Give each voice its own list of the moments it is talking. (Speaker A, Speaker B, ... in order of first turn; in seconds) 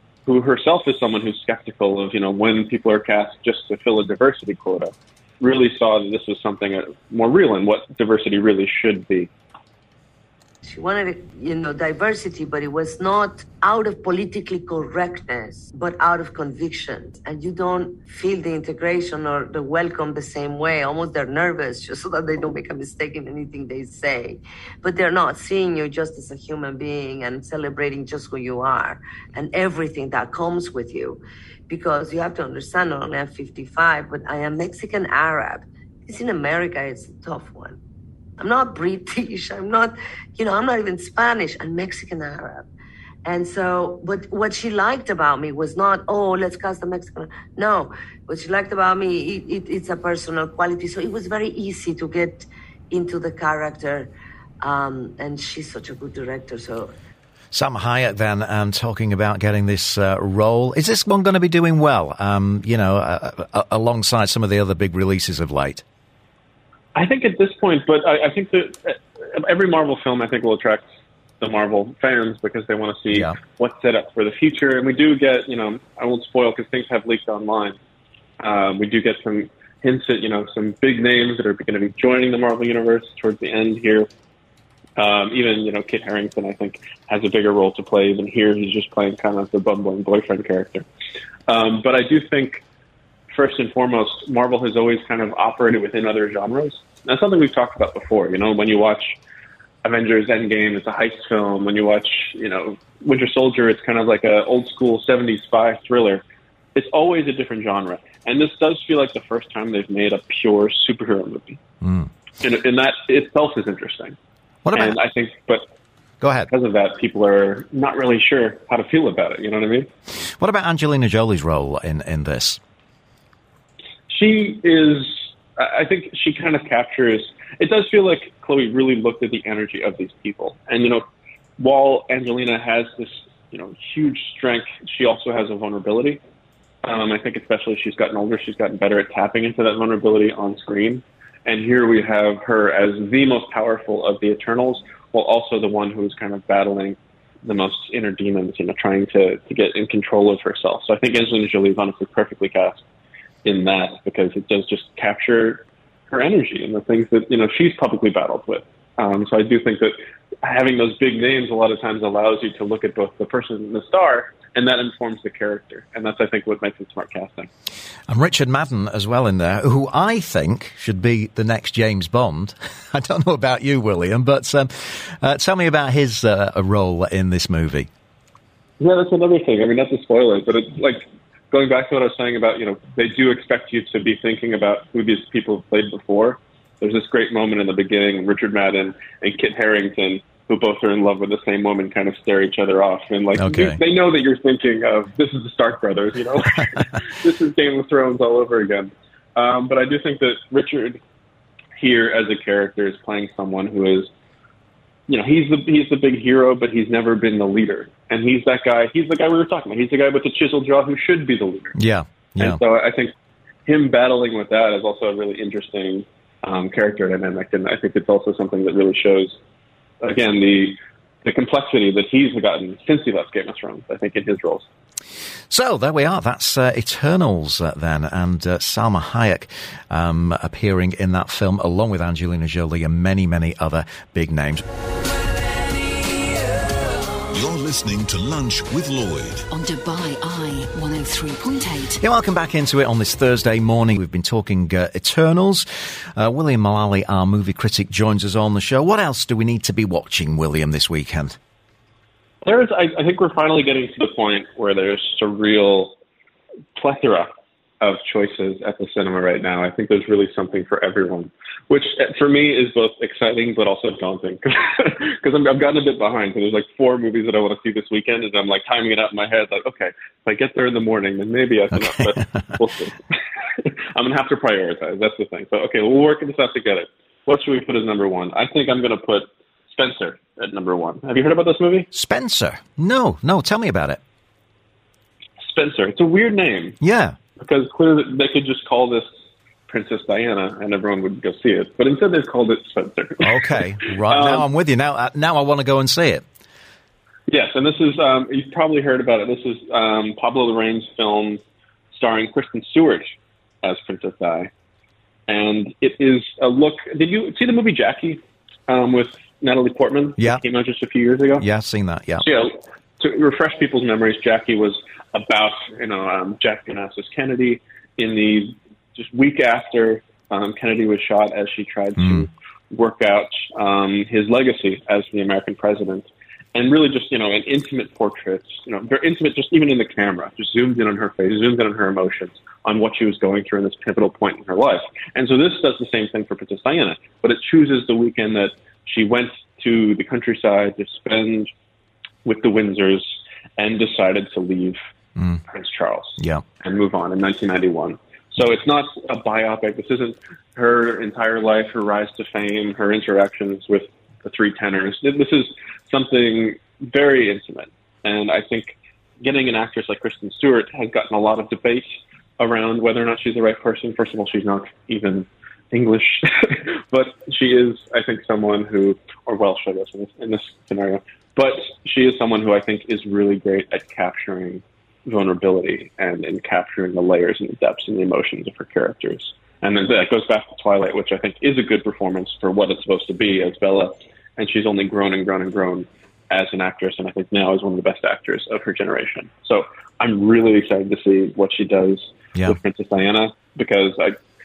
Speaker A: 0.3-9.3, 67.0-70.8, 71.4-77.8, 78.4-84.1, 85.0-90.8, 91.5-92.6, 93.3-99.2, 99.8-106.2, 106.8-111.6, 112.4-114.2, 114.7-115.6, 116.5-119.9, 124.1-131.0, 131.6-136.2, 136.8-152.8, 153.4-167.5, 178.8-201.0, 201.8-204.1, 205.1-211.8, 212.4-213.1, 213.7-219.4, 220.0-224.7, 252.4-255.9, 256.8-257.3, 257.8-273.0, 273.6-281.9, 285.4-286.8, 287.4-289.1, 289.7-294.4, 297.3-301.4, 301.9-304.5, 305.3-311.4, 312.2-341.5, 342.2-344.8, 345.5-361.9, 362.4-394.2
Speaker B: 10.6-37.8, 38.4-42.7, 43.2-54.1, 54.6-56.9
Speaker C: 57.5-65.8, 111.8-112.1, 114.7-115.0, 116.2-116.5, 120.4-122.6, 168.1-177.9, 193.3-193.8, 211.8-212.6, 225.5-234.6, 242.0-251.4, 271.7-272.4, 281.9-284.0, 286.8-287.2, 293.2-296.2, 311.4-312.3, 322.0-322.3, 345.2-345.4, 346.2-346.4
Speaker D: 237.3-239.4
Speaker E: 239.5-242.0